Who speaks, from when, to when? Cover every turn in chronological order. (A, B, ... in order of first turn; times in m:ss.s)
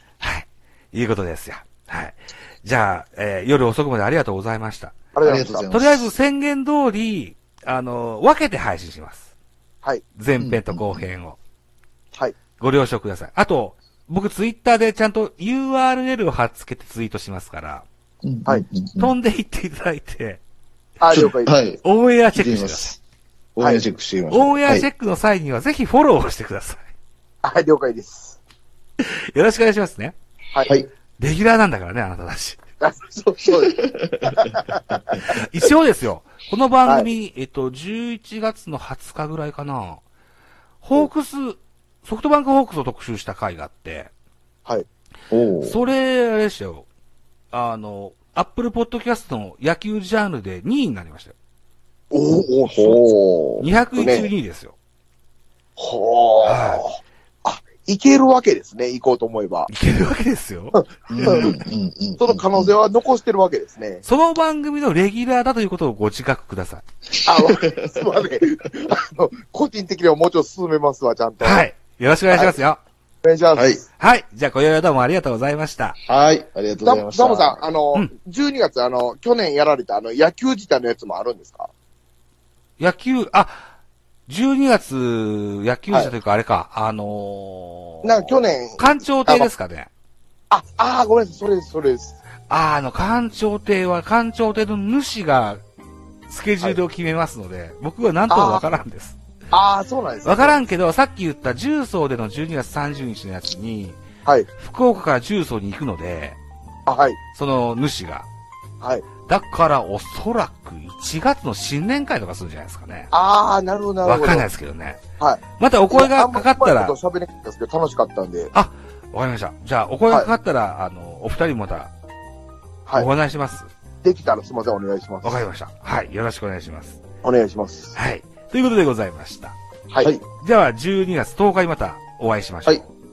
0:00.2-0:05.1 A
0:05.1-0:05.7 B
0:05.2-0:06.1 C
0:05.7-0:09.3 A
0:10.1-0:11.4 A
0:10.4-0:11.1 C
0:12.6-0:17.9 A
0:18.2-0:19.1 C
0:19.0-0:20.4 A
0:21.0-0:21.6 B
0:21.1-0:23.0 C
0:21.8-0:22.9 A
0:23.6-0:24.9 C
0:23.6-0:23.8 B
0:24.3-0:26.9 A
0:27.4-0:28.4 B
0:29.0-0:30.1 A
0:31.2-0:32.6 A
0:32.8-0:33.7 B
0:33.6-0:34.3 C
0:34.3-0:35.4 B
0:35.3-0:40.0 A
0:36.8-0:37.1 B
0:40.8-0:44.1 A
0:45.3-0:45.8 C
0:45.6-0:46.9 A
0:47.5-0:51.3 A
0:52.1-0:54.3 B
0:53.6-0:54.7 A
0:55.8-0:59.7 B
0:56.4-0:56.8 A
0:59.7-1:01.5 A
1:00.7-1:01.6 B
1:01.1-1:02.7 C
1:02.2-1:04.0 B
1:04.0-1:06.8 A
1:07.2-1:11.7 B
1:11.4-1:12.8 A
1:13.2-1:13.8 B
1:13.6-1:13.8 C
1:14.0-1:16.0 A
1:16.0-1:17.6 C
1:16.8-1:21.7 B
1:22.8-1:23.6 A
1:24.3-1:29.9 A
1:25.9-1:26.1 B
1:28.0-1:29.5 B
1:30.5-1:32.2 B
1:32.5-1:35.6 A
1:36.3-1:39.2 A
1:38.3-1:38.6 B
1:39.5-1:40.6 B
1:40.2-1:46.4 A
1:46.9-1:47.2 B
1:47.3-1:48.3 A
1:48.8-1:49.1 B
1:49.2-1:53.1 A
1:53.1-1:54.5 B
1:54.0-1:55.0 A
1:55.2-1:58.5 B
1:55.6-1:57.0 A
1:58.5-2:01.9 A
2:02.9-2:03.7 A
2:04.0-2:05.5 B
2:05.2-2:07.0 A
2:07.2-2:08.0 B
2:07.9-2:09.6 A
2:09.9-2:10.2 B
2:10.4-2:12.9 A